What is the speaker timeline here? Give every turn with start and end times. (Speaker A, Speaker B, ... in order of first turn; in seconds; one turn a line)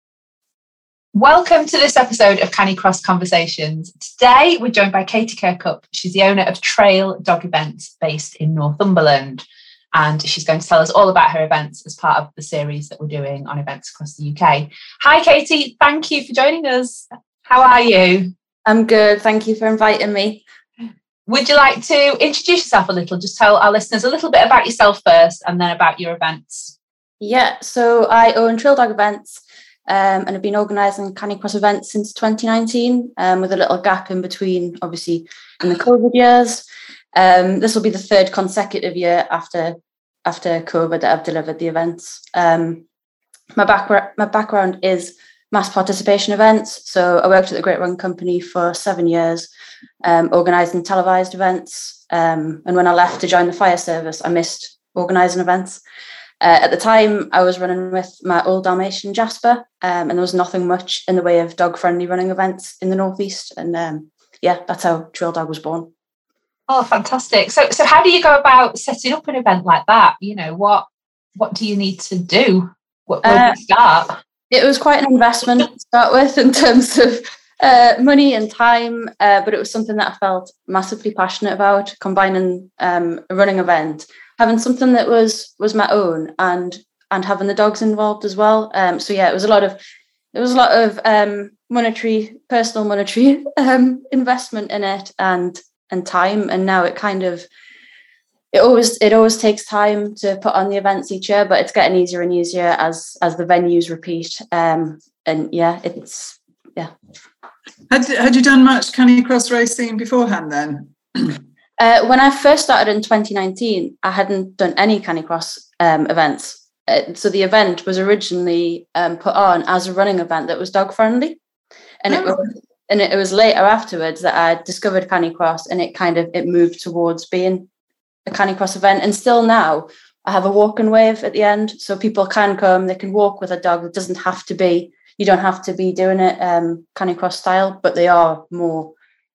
Speaker A: 1.1-18.3
Speaker B: 18.6-20.4
Speaker A: 21.3-26.7
Speaker B: 27.2-42.8
Speaker B: 43.5-49.5
Speaker B: 50.0-55.8
Speaker B: 56.4-65.9
Speaker A: 66.7-74.2
Speaker B: 73.2-73.6
Speaker B: 74.5-89.8
Speaker B: 90.3-97.5
Speaker B: 98.5-106.9
Speaker C: 107.9-111.4
Speaker B: 111.8-121.4
Speaker B: 122.0-127.7
Speaker C: 122.1-122.4
Speaker B: 128.2-138.9